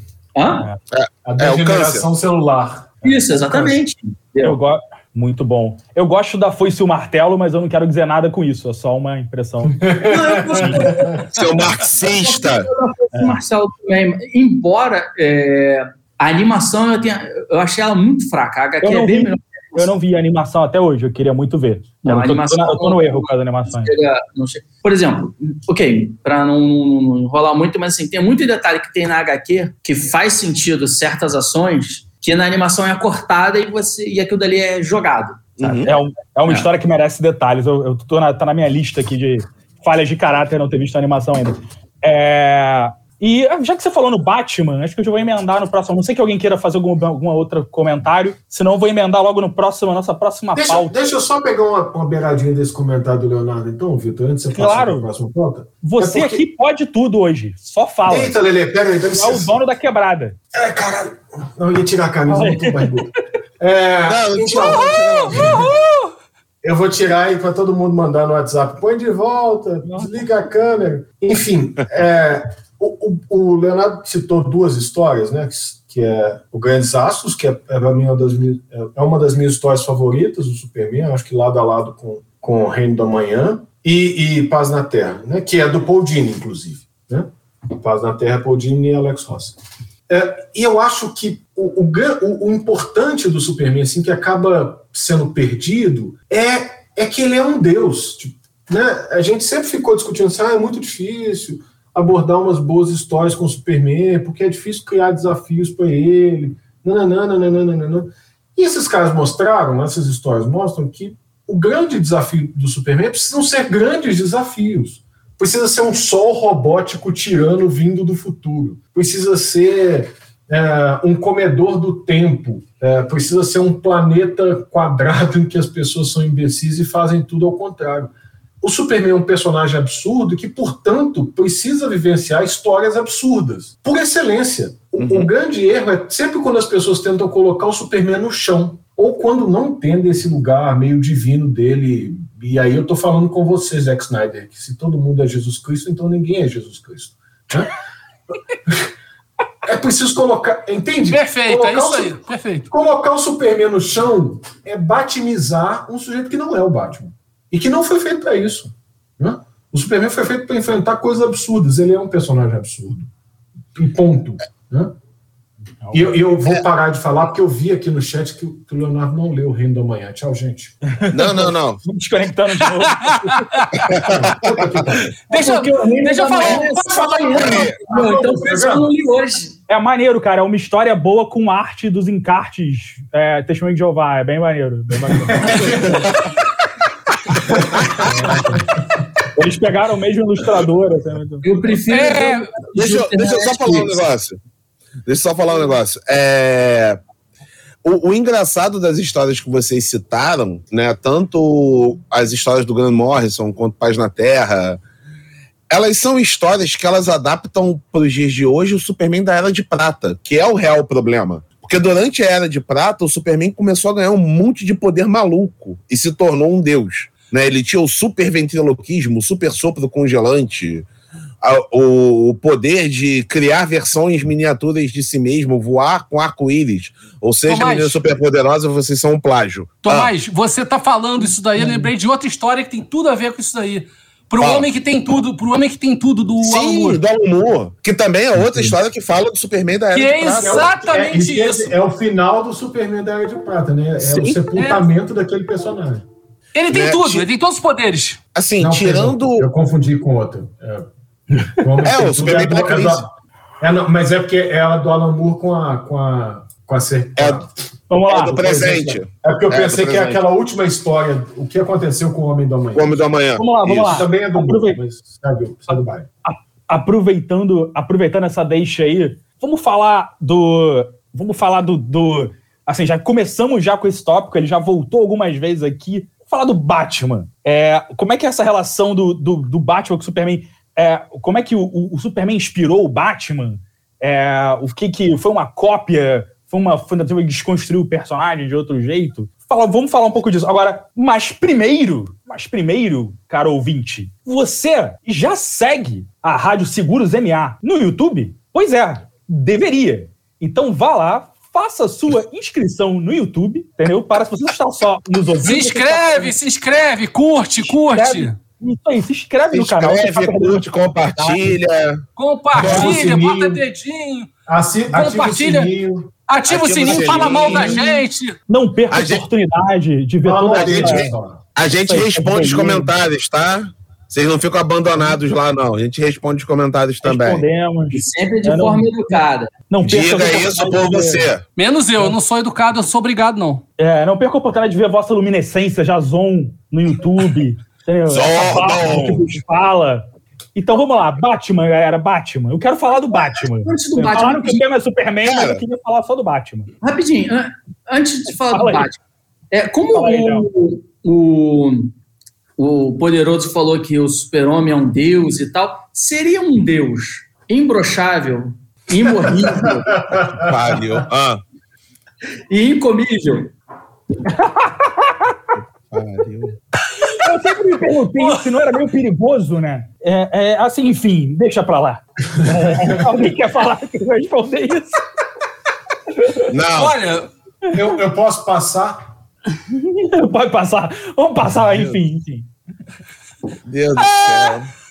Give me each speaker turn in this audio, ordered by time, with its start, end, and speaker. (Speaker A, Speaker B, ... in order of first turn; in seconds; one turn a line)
Speaker A: 0.3-0.7
Speaker B: 0.9-2.0
Speaker C: 1.2-3.0
Speaker A: 3.0-4.6
Speaker D: 4.4-9.8
Speaker C: 9.8-11.1
Speaker A: 10.1-11.3
Speaker D: 10.6-10.9
Speaker B: 11.3-12.7
Speaker A: 12.1-19.9
Speaker D: 18.8-23.9
Speaker A: 22.0-35.5
Speaker B: 35.6-35.9
Speaker D: 35.6-50.9
Speaker C: 50.5-56.4
Speaker D: 54.5-55.1
Speaker D: 55.8-58.4
Speaker C: 58.1-59.5
Speaker D: 59.1-60.4
Speaker C: 60.5-65.7
Speaker D: 62.3-63.0
Speaker B: 64.0-65.7
Speaker E: 64.5-66.1
Speaker C: 66.6-89.6
Speaker D: 69.8-70.2
Speaker C: 90.1-147.7
Speaker B: 134.9-135.3
Speaker C: 148.5-148.9
Speaker C: 149.6-152.2
Speaker E: 151.1-152.7
Speaker C: 152.7-163.1
Speaker C: 163.8-164.9
Speaker D: 165.8-166.2
Speaker C: 165.9-170.8
Speaker D: 171.0-173.6
Speaker B: 171.1-171.8
Speaker B: 173.8-175.0
Speaker C: 173.9-175.1
Speaker E: 175.3-177.1
Speaker A: 175.3-179.5
Speaker C: 176.4-178.9
Speaker B: 177.3-177.8
Speaker D: 179.7-185.9
Speaker C: 185.3-186.0
Speaker B: 185.4-186.3
Speaker C: 187.5-188.6
Speaker B: 187.6-188.6
Speaker D: 189.3-191.5
Speaker A: 191.4-193.4
Speaker E: 191.9-192.8
Speaker B: 192.7-194.4
Speaker B: 195.1-197.0
Speaker B: 197.8-204.8
Speaker B: 205.7-220.8
Speaker B: 221.4-230.1
Speaker E: 227.5-228.0
Speaker E: 229.8-237.0
Speaker D: 231.6-231.9
Speaker B: 234.4-234.7
Speaker B: 236.4-240.7
Speaker E: 239.9-241.7
Speaker C: 240.4-246.0
Speaker B: 244.1-244.4
Speaker E: 244.5-244.8
Speaker E: 246.5-248.2
Speaker B: 246.7-247.3
Speaker B: 248.3-249.5
Speaker C: 248.6-250.9
Speaker C: 251.4-253.1
Speaker B: 251.8-253.0
Speaker C: 253.6-257.5
Speaker B: 257.2-257.4
Speaker D: 257.9-258.4
Speaker B: 258.1-260.2
Speaker C: 258.2-263.1
Speaker B: 262.7-264.1
Speaker D: 263.4-264.8
Speaker C: 263.8-266.1
Speaker D: 266.2-306.3
Speaker E: 305.4-308.3
Speaker D: 307.6-311.5
Speaker B: 309.5-312.0
Speaker E: 312.1-314.3
Speaker C: 312.5-313.6
Speaker D: 312.6-313.0
Speaker C: 314.5-316.1
Speaker E: 314.9-315.7
Speaker E: 316.3-318.4
Speaker B: 316.5-317.8
Speaker C: 316.8-317.7
Speaker D: 317.4-321.1
Speaker B: 318.9-319.2
Speaker C: 320.2-321.4
Speaker B: 320.5-327.4
Speaker D: 321.9-322.9
Speaker D: 327.0-329.1
Speaker A: 327.9-329.5
Speaker D: 329.7-331.3
Speaker B: 329.8-331.4
Speaker E: 331.6-333.6
Speaker D: 333.8-346.7
Speaker B: 338.1-339.3
Speaker A: 343.6-344.6
Speaker B: 345.2-345.6
Speaker A: 346.8-351.9
Speaker D: 348.4-348.9
Speaker D: 349.9-350.5
Speaker A: 352.6-359.8
Speaker B: 359.5-361.4
Speaker C: 360.2-360.5
Speaker A: 362.5-363.5
Speaker D: 364.2-365.3
Speaker B: 365.9-366.6
Speaker D: 367.2-375.0
Speaker B: 376.5-376.9
Speaker E: 376.7-377.3
Speaker C: 377.7-379.1
Speaker D: 379.7-382.5
Speaker B: 383.6-384.7